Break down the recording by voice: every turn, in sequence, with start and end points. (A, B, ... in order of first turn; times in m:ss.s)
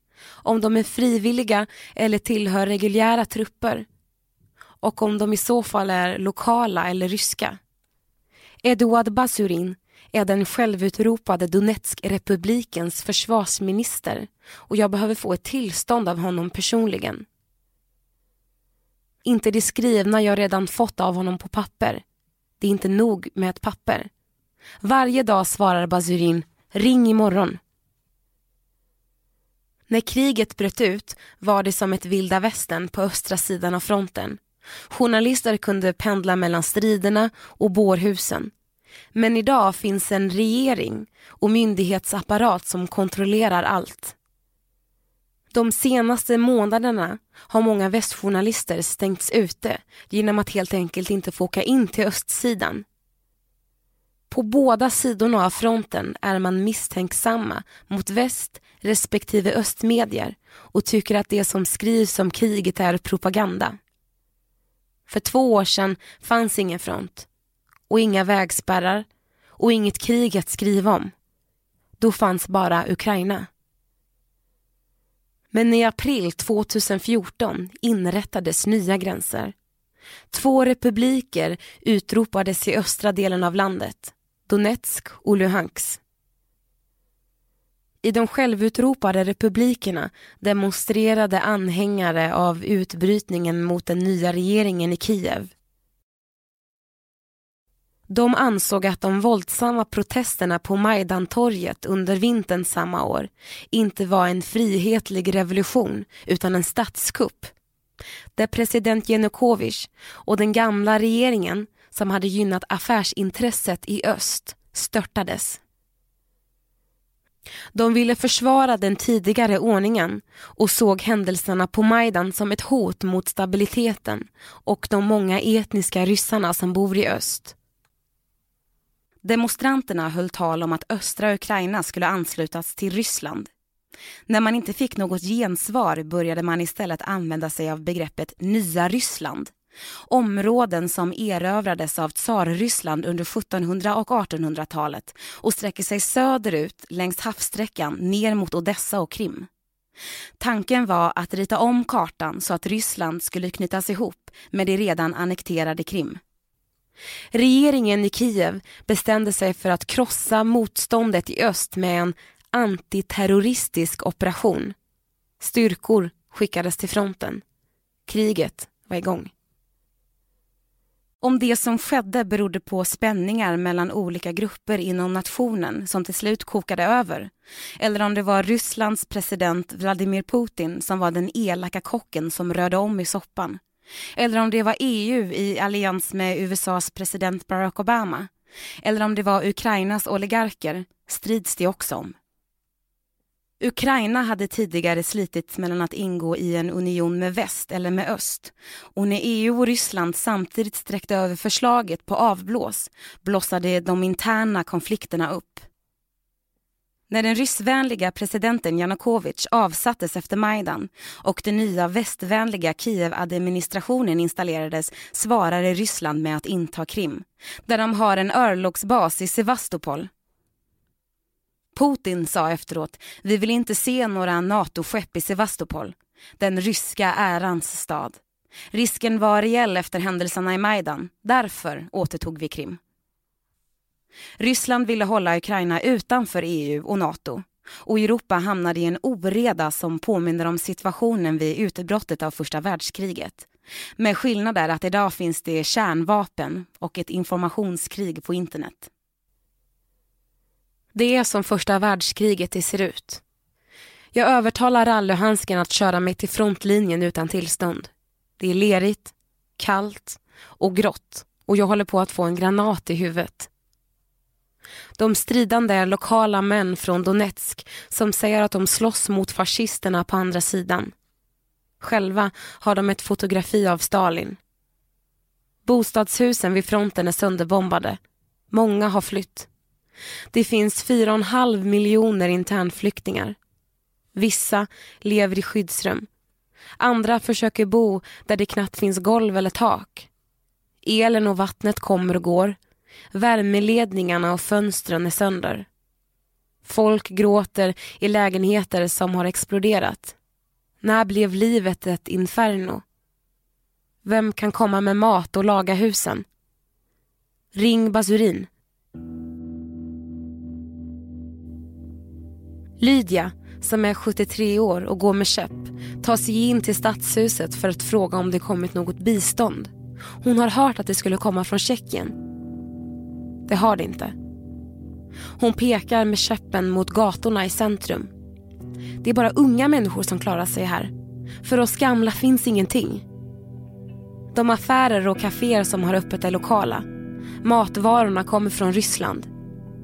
0:00.4-0:03.8 A
0:04.8-0:07.6 A
0:08.6-0:17.2 A
0:19.2-0:22.0 A
0:22.6-0:24.1 A
0:24.8-0:27.6 A
0:29.9-0:34.4 A
0:34.9-0:38.5 A
0:39.1-0:44.2 A
0:45.5-0:52.8 A
0:54.3-1:03.8 A
1:05.1-1:07.3 A
1:07.9-1:09.0 A
1:09.6-1:11.1 A
1:12.0-1:13.5 A
1:15.5-1:19.5 A
1:20.3-1:26.0 A
1:28.0-1:35.5 A
1:38.1-1:47.5 A
1:48.4-1:55.6 A
1:57.7-2:07.5 A
2:09.2-2:13.5 A
2:14.3-2:19.5 A
2:20.1-2:29.5 A
2:30.4-2:36.2 A
2:37.3-2:44.7 A
2:45.4-2:47.4 A
2:48.1-2:49.3 A
2:51.2-3:03.6 A
3:04.2-3:08.3 A
3:08.8-3:12.1 A
3:13.6-3:25.6 A
3:27.1-3:40.1 A
3:41.8-3:48.2 A
3:48.7-3:52.8 A
3:54.4-4:03.5 A
4:04.0-4:08.9 A
4:10.9-4:13.2 A
4:14.1-4:23.5 A
4:25.0-4:30.9 A
4:31.8-4:34.4 A
4:35.6-4:38.0 A
4:38.5-4:39.5 A
4:40.3-4:43.4 A
4:44.1-4:46.1 A
4:46.8-4:50.1 A
4:50.8-4:52.6 A
4:53.1-4:55.6 A
4:56.6-5:00.1 A
5:00.8-5:02.8 A
5:04.0-5:06.2 A
5:07.5-5:08.5 A
5:12.8-5:22.1 A
5:23.5-5:24.1 A
5:25.4-5:28.1 A
5:29.0-5:30.9 A
5:31.4-5:33.0 A
5:34.3-5:36.8 A
5:37.4-5:39.3 A